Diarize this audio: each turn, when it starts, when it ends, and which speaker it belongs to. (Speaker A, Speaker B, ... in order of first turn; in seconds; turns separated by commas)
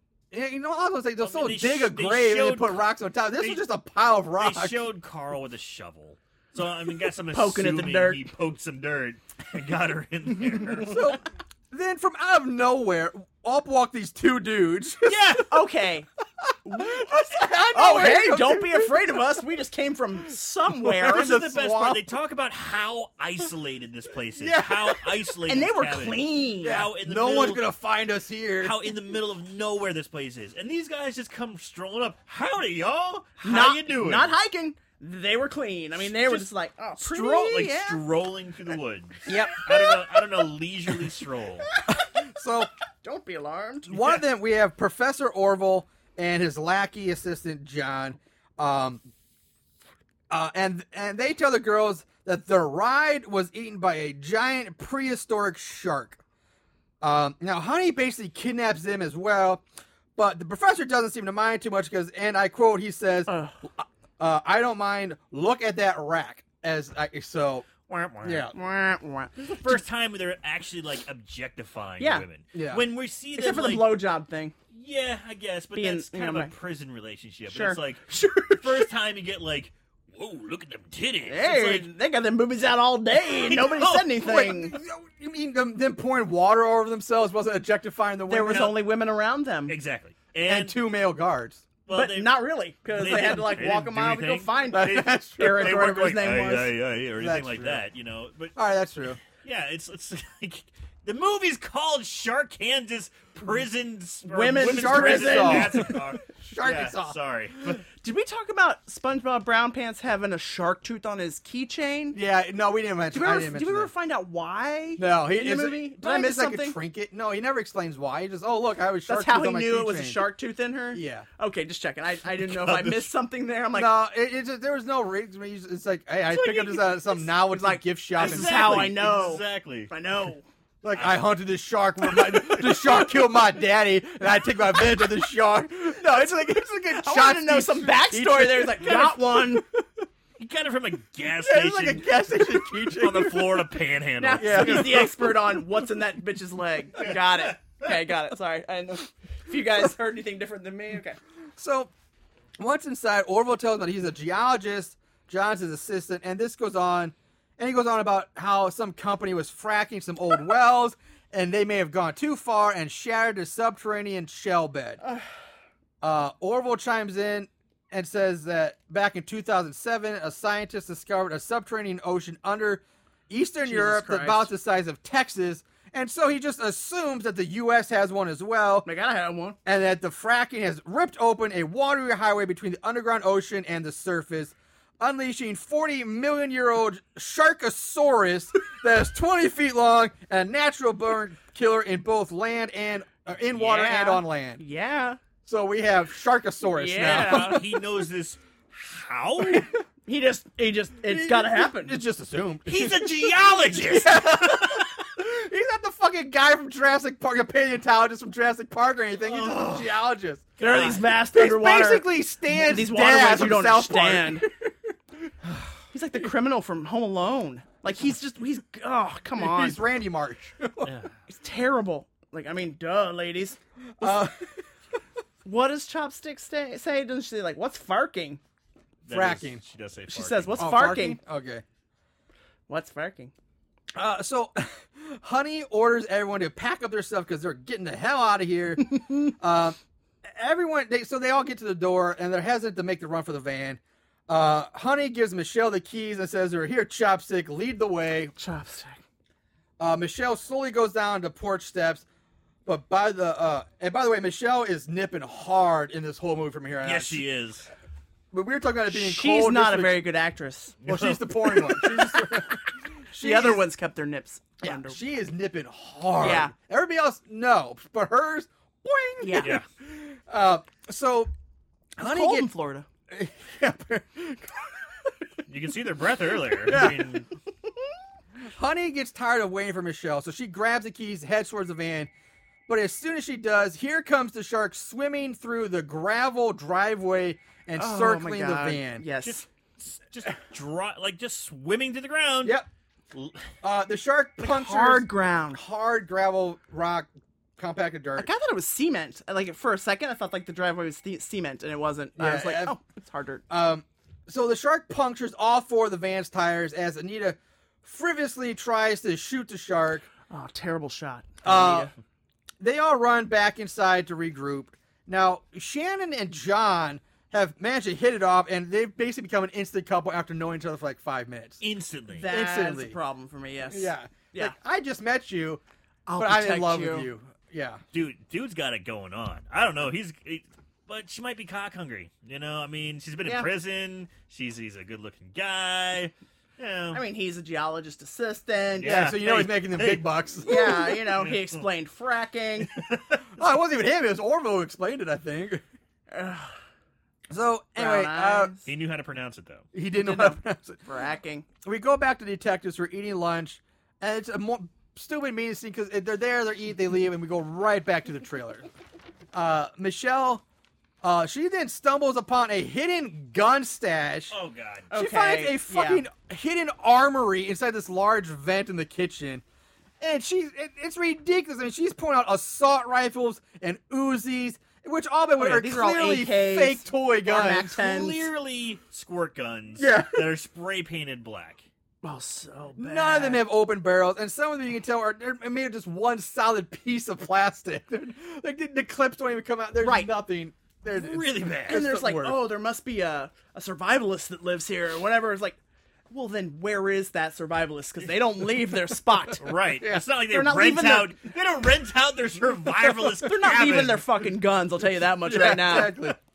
Speaker A: 0.3-4.8, Speaker B: 1.2-2.8, Speaker B: 3.4-3.6, Speaker B: 4.3-11.1, Speaker C: 7.3-8.3, Speaker A: 10.8-15.4, Speaker B: 15.1-15.5, Speaker C: 15.5-16.1, Speaker A: 16.4-19.1, Speaker C: 16.6-17.2, Speaker C: 17.7-21.4, Speaker A: 20.8-22.0, Speaker B: 21.0-27.6, Speaker A: 24.4-25.3, Speaker C: 25.4-26.9, Speaker A: 26.6-28.8, Speaker B: 28.6-34.4, Speaker C: 33.4-38.0, Speaker B: 36.0-41.7, Speaker A: 39.3-39.7, Speaker C: 39.3-39.6, Speaker A: 42.1-42.7, Speaker C: 43.0-44.2, Speaker A: 43.9-49.0, Speaker A: 50.3-56.2, Speaker A: 57.0-59.6, Speaker A: 60.1-67.7, Speaker C: 63.3-63.6, Speaker B: 67.9-68.5, Speaker A: 68.2-68.5, Speaker C: 68.5-69.8, Speaker B: 69.4-74.0, Speaker C: 72.0-72.2, Speaker A: 72.5-72.8, Speaker C: 73.4-74.5, Speaker B: 74.7-81.9, Speaker C: 75.7-76.5, Speaker C: 77.5-78.9, Speaker C: 81.2-84.8, Speaker B: 83.4-84.2, Speaker A: 84.2-88.7, Speaker C: 88.3-89.8, Speaker B: 88.5-88.8, Speaker B: 89.7-90.8, Speaker A: 90.5-91.6, Speaker B: 91.8-92.4, Speaker C: 91.9-96.7, Speaker B: 92.9-98.5, Speaker A: 94.7-95.8, Speaker A: 97.2-97.8, Speaker A: 98.5-99.2, Speaker B: 99.2-107.8, Speaker C: 104.2-106.0, Speaker A: 104.5-107.2, Speaker C: 108.0-112.2, Speaker A: 112.1-113.9, Speaker C: 113.1-116.8, Speaker A: 115.0-120.3, Speaker C: 119.1-123.9, Speaker A: 120.9-121.2, Speaker B: 122.4-123.1, Speaker A: 123.7-128.9, Speaker B: 126.3-127.0, Speaker C: 127.1-130.4, Speaker B: 128.2-129.9, Speaker A: 130.8-139.6, Speaker B: 130.9-131.2, Speaker B: 132.3-132.6, Speaker C: 136.2-139.6, Speaker B: 140.4-142.4, Speaker A: 141.4-143.6, Speaker B: 142.9-145.4, Speaker C: 144.2-151.2, Speaker A: 144.3-145.3, Speaker B: 147.0-148.0, Speaker A: 151.6-151.9, Speaker A: 152.6-165.0, Speaker A: 166.0-178.9, Speaker C: 173.6-174.5, Speaker C: 178.8-179.6, Speaker A: 179.6-194.6, Speaker C: 193.5-195.2, Speaker A: 195.4-197.6, Speaker C: 196.7-197.6, Speaker B: 197.0-199.7, Speaker C: 200.1-202.0, Speaker A: 201.1-210.5, Speaker B: 202.7-204.9, Speaker B: 209.2-209.9, Speaker B: 210.6-211.1, Speaker C: 210.6-214.5, Speaker A: 211.3-214.5, Speaker C: 215.9-219.8, Speaker A: 219.4-220.9, Speaker B: 220.8-221.1, Speaker C: 221.3-224.2, Speaker A: 224.0-224.5, Speaker C: 225.4-228.4, Speaker B: 229.0-230.7, Speaker A: 229.1-229.6, Speaker C: 230.1-231.2, Speaker A: 230.6-231.6, Speaker C: 232.7-233.3, Speaker A: 233.9-239.8, Speaker A: 240.3-248.3, Speaker C: 248.4-249.0, Speaker A: 249.8-252.0, Speaker A: 252.7-257.2, Speaker B: 256.8-257.7, Speaker A: 258.3-260.0, Speaker C: 258.9-260.8, Speaker B: 260.8-261.6, Speaker A: 260.8-263.6, Speaker C: 263.1-265.0, Speaker A: 264.6-271.3, Speaker C: 266.2-266.5, Speaker C: 269.2-269.6, Speaker B: 269.4-269.6, Speaker A: 272.0-272.5, Speaker C: 272.0-272.9, Speaker A: 273.1-274.8, Speaker B: 275.5-277.3, Speaker A: 276.6-277.0, Speaker A: 278.6-282.1, Speaker A: 282.7-289.0, Speaker C: 287.8-289.4, Speaker B: 289.2-292.6, Speaker B: 293.1-293.5, Speaker A: 293.6-298.3, Speaker C: 294.4-295.6, Speaker C: 298.2-303.4, Speaker A: 302.2-302.8, Speaker A: 303.5-310.1, Speaker C: 310.3-311.9, Speaker A: 311.4-311.9, Speaker A: 312.6-321.6, Speaker B: 321.6-322.3, Speaker C: 322.1-324.5, Speaker A: 322.2-322.9, Speaker A: 323.7-325.6, Speaker C: 326.1-327.1, Speaker A: 326.1-327.8, Speaker B: 327.9-337.0, Speaker C: 336.9-339.1, Speaker B: 338.8-340.1, Speaker A: 338.8-340.9, Speaker C: 340.4-342.7, Speaker B: 341.1-341.6, Speaker B: 342.6-343.2, Speaker A: 343.4-345.6, Speaker C: 346.1-346.5, Speaker A: 347.3-348.5, Speaker C: 347.8-348.7, Speaker B: 348.6-349.7, Speaker A: 349.7-350.8, Speaker C: 350.0-351.4, Speaker A: 351.6-358.6, Speaker A: 359.3-360.4, Speaker A: 361.0-364.3, Speaker B: 364.3-364.9, Speaker C: 364.9-366.0, Speaker A: 364.9-369.4, Speaker A: 370.0-377.8, Speaker C: 375.4-378.3, Speaker B: 377.7-381.6, Speaker A: 379.8-380.3, Speaker C: 382.0-383.4, Speaker A: 382.8-392.4, Speaker C: 389.8-390.1, Speaker B: 390.9-391.8, Speaker C: 391.7-395.6, Speaker C: 396.1-399.5, Speaker B: 399.4-404.1, Speaker C: 400.1-401.3, Speaker C: 403.2-406.1, Speaker A: 405.2-406.1